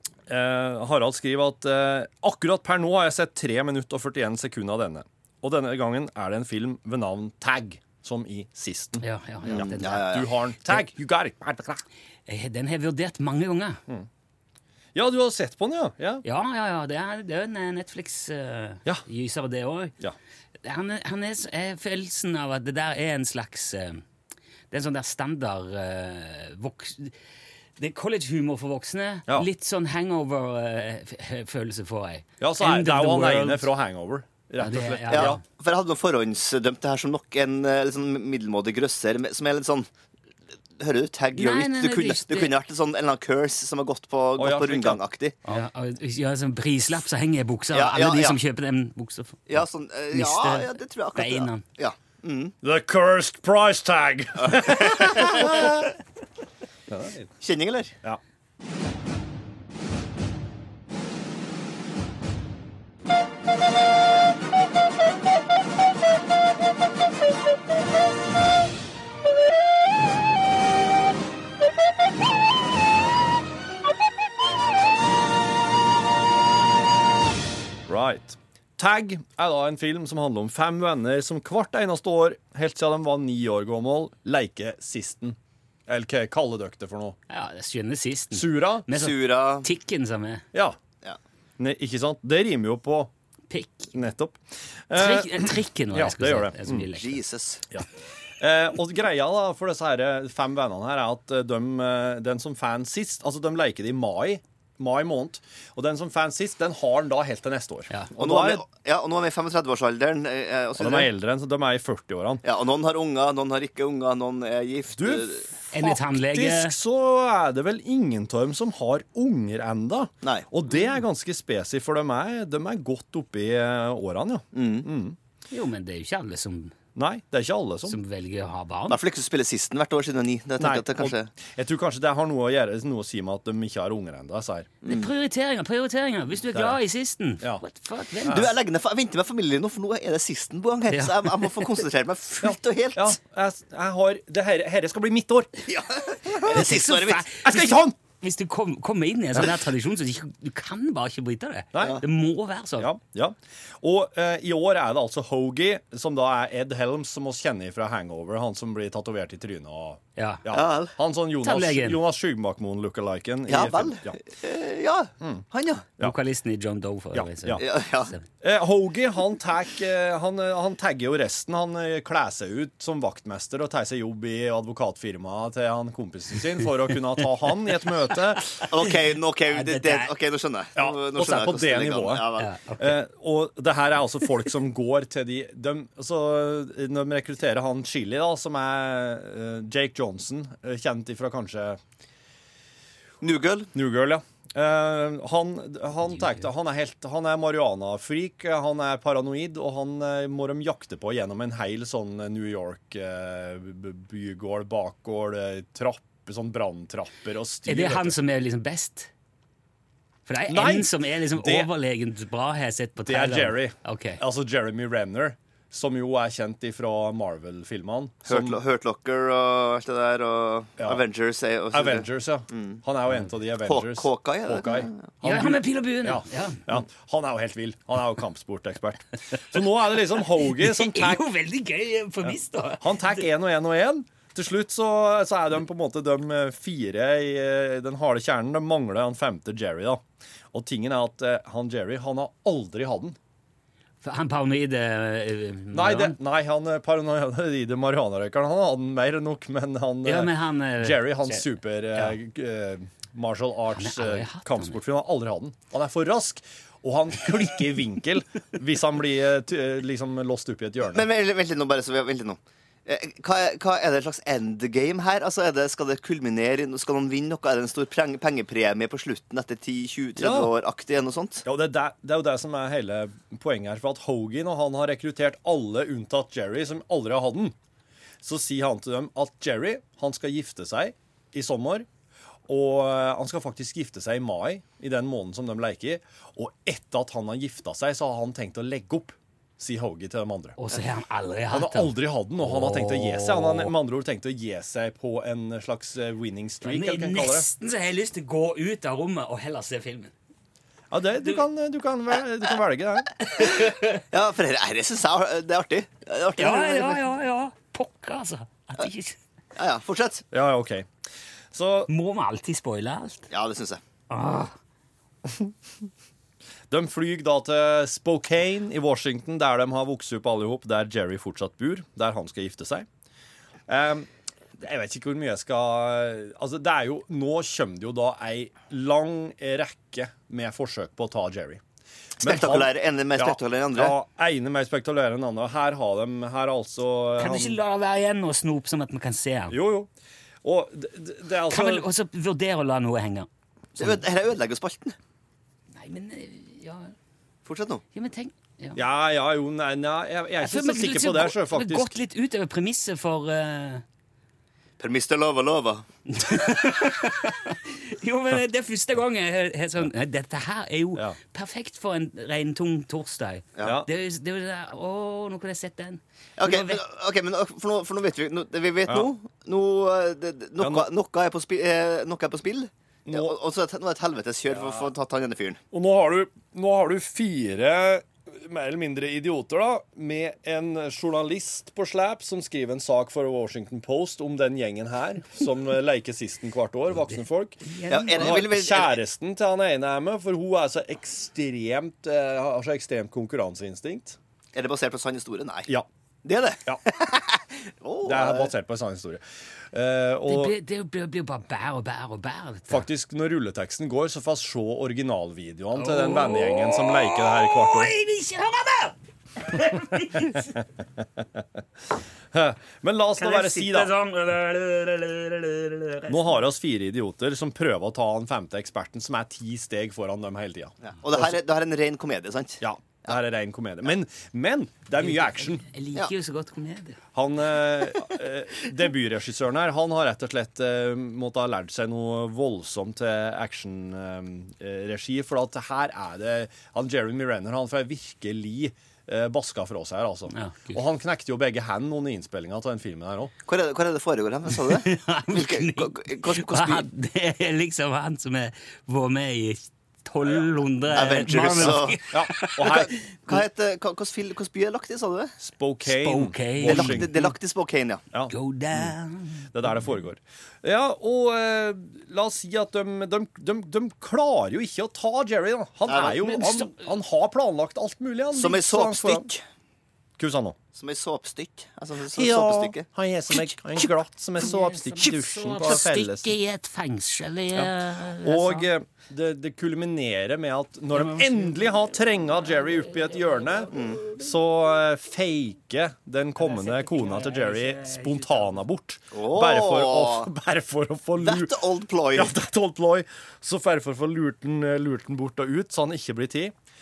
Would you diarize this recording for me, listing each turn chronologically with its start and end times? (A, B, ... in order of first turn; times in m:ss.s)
0:00.3-0:11.8 A
0:09.0-0:10.2 B
0:09.4-0:10.3 C
0:12.3-0:13.8 B
0:14.9-0:16.2 A
0:16.2-0:19.9 B
0:20.6-0:24.0 B
0:24.7-0:27.2 B
0:27.8-0:33.7 B
0:32.4-0:35.4 A
0:34.6-0:35.4 B
0:35.1-0:39.9 C
0:40.8-0:45.4 C
0:41.3-0:42.5 B
0:44.4-0:45.0 A
0:45.4-0:51.6 B
0:47.7-0:48.4 C
0:49.5-0:52.5 C
0:52.6-0:55.8 A
0:54.4-0:55.8 C
0:56.9-0:57.3 A
0:57.4-0:57.9 C
1:17.9-1:27.2 A
1:27.3-1:30.4 B
1:28.3-1:28.9 A
1:28.9-1:29.7 C
1:31.6-1:33.1 A
1:33.5-1:33.9 B
1:33.9-1:36.9 A
1:35.0-1:37.2 B
1:36.9-1:37.6 C
1:38.4-1:48.6 A
1:48.2-1:51.1 C
1:50.8-1:52.4 A
1:52.4-1:55.4 C
1:55.0-2:05.2 A
1:55.7-1:56.7 B
2:04.5-2:04.9 C
2:05.5-2:06.7 B
2:07.0-2:08.0 A
2:07.8-2:09.0 B
2:08.9-2:11.3 C
2:10.6-2:14.7 A
2:14.8-2:15.1 C
2:14.8-2:18.5 B
2:16.5-2:16.8 A
2:18.2-2:18.5 A
2:18.3-2:23.2 C
2:20.9-2:21.8 B
2:22.4-2:25.5 A
2:25.7-2:27.2 C
2:26.4-2:32.9 B
2:27.4-2:27.9 A
2:31.7-2:32.0 A
2:32.8-2:44.1 A
2:40.2-2:40.4 B
2:40.5-2:40.9 C
2:41.4-2:42.0 B
2:43.5-2:45.9 C
2:46.0-2:48.2 B
2:47.1-2:47.6 A
2:47.5-2:48.1 C
2:48.4-2:58.6 A
2:58.6-3:02.5 C
2:59.4-3:00.1 B
3:00.8-3:02.3 A
3:02.4-3:03.0 B
3:02.8-3:11.8 A
3:13.2-3:13.7 C
3:13.7-3:28.2 A
3:27.6-3:29.1 B
3:30.2-3:34.2 B
3:30.5-3:31.7 A
3:33.0-3:38.6 A
3:38.2-3:42.8 C
3:41.7-3:51.2 A
3:43.6-3:45.0 C
3:45.2-3:46.6 B
3:50.4-3:53.2 B
3:52.2-4:03.2 A
4:04.0-4:06.2 B
4:05.7-4:21.0 A
4:10.0-4:12.2 B
4:13.7-4:14.8 B
4:20.9-4:31.4 C
4:30.2-4:30.5 A
4:31.4-4:37.5 A
4:38.2-4:41.9 A
4:42.5-4:50.6 A
4:50.6-4:53.7 B
4:51.5-4:57.4 A
4:56.6-5:00.1 B
5:00.9-5:03.5 A
5:03.2-5:04.0 B
5:04.1-5:07.0 C
5:06.4-5:09.2 B
5:09.6-5:10.2 C
5:10.3-5:10.9 A
5:11.5-5:11.9 A
5:11.9-5:13.3 B
5:13.3-5:13.8 C
5:14.1-5:14.5 B
5:16.7-5:22.8 A
5:23.7-5:31.6 A
5:32.2-5:33.9 C
5:32.2-5:37.6 A
5:37.2-5:39.6 B
5:39.5-5:39.9 A
5:40.4-5:41.9 A
5:41.5-5:44.0 B
5:43.8-5:45.0 C
5:45.7-5:46.9 B
5:47.4-5:47.8 C
5:47.9-5:48.8 B
5:48.7-5:52.0 A
5:50.4-5:53.8 B
5:54.8-5:55.8 C
5:56.1-6:06.8 B
6:03.6-6:03.9 A
6:06.4-6:15.6 C
6:10.6-6:10.9 A
6:13.0-6:13.3 A
6:14.5-6:14.9 A
6:15.7-6:27.6 A
6:27.6-6:28.4 B
6:27.9-6:29.0 C
6:28.1-6:34.2 A
6:34.5-6:35.7 C
6:36.2-6:38.5 C
6:38.0-6:40.5 A
6:40.3-6:42.8 B
6:42.7-6:47.9 A
6:45.7-6:50.6 B
6:52.3-6:53.9 A
6:53.2-6:56.2 B
6:56.1-7:01.4 A
7:00.8-7:02.6 C
7:02.6-7:05.6 A
7:05.0-7:07.0 B
7:07.1-7:23.3 A
7:20.3-7:20.8 B
7:23.4-7:26.8 C
7:24.6-7:33.0 B
7:30.9-7:32.0 C
7:32.1-7:32.9 A
7:32.6-7:35.4 C
7:35.4-7:37.1 A
7:35.8-7:37.3 B
7:36.6-7:38.0 C
7:38.1-7:38.9 A
7:38.3-7:39.5 B
7:39.5-7:49.3 A
7:45.9-7:46.3 C
7:46.1-7:46.8 B
7:48.3-7:49.4 C
7:50.2-7:50.6 A
7:50.7-7:52.8 C
7:52.1-7:56.3 A
7:53.3-7:53.9 B
7:54.4-7:58.7 B
7:58.2-8:11.6 A
8:00.9-8:01.7 B
8:03.1-8:03.6 B
8:03.7-8:04.0 C
8:06.4-8:08.6 B
8:09.1-8:10.3 C
8:11.2-8:12.3 C
8:12.1-8:16.5 A